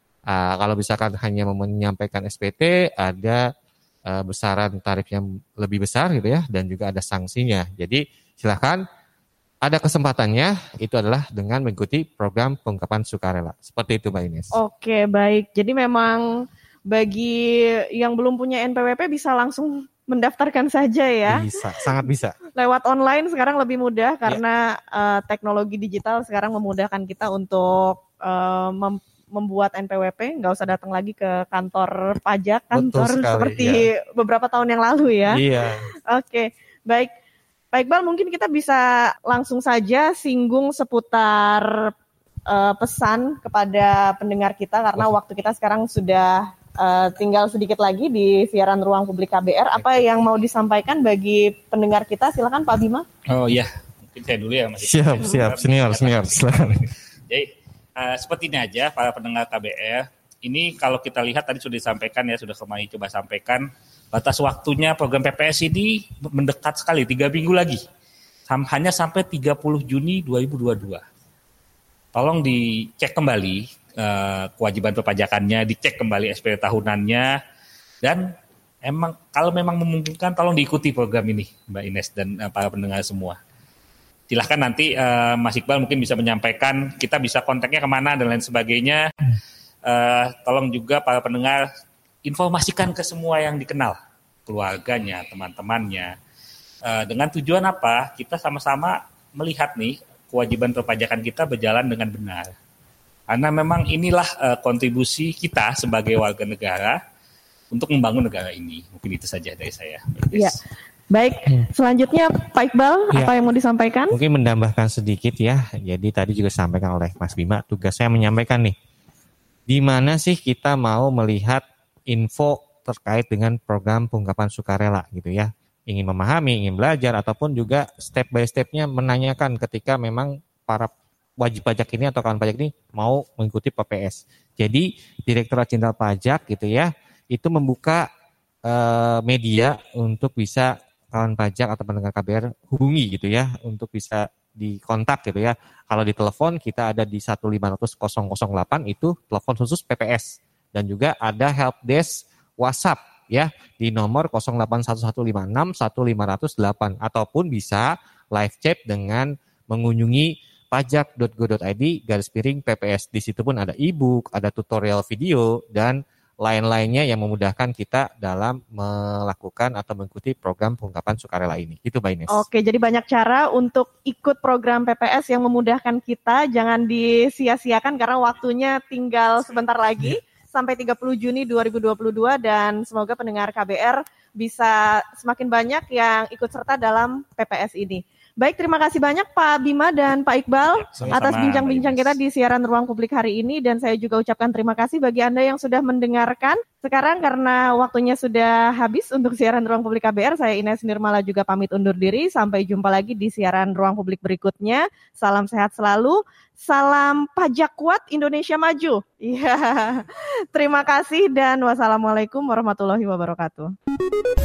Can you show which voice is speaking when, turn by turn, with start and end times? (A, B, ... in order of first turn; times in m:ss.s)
0:00.3-0:03.4 A
0:04.1-0:08.8 A
0:09.6-0:14.5 A
0:14.5-0:16.3 B
0:16.9-0:21.4 B
0:21.3-0:22.4 A
0:22.5-0:35.4 B
0:32.7-0:33.9 A
0:35.3-0:35.9 A
0:36.1-0:37.1 B
0:37.7-0:41.9 B
0:42.5-0:53.0 B
0:53.3-1:07.8 C
0:54.8-0:56.8 A
1:08.5-1:11.0 C
1:12.1-1:17.4 C
1:18.0-1:18.3 C
1:18.8-1:23.4 C
1:24.3-1:29.0 C
1:29.8-1:31.6 C
1:32.2-1:36.1 C
1:36.8-1:42.5 C
1:43.3-1:47.0 C
1:47.7-1:50.6 C
1:51.1-1:54.2 B
1:54.1-1:58.7 A
1:59.7-2:18.1 A
2:18.6-2:52.4 A
2:52.3-3:33.7 B
3:10.8-3:12.2 C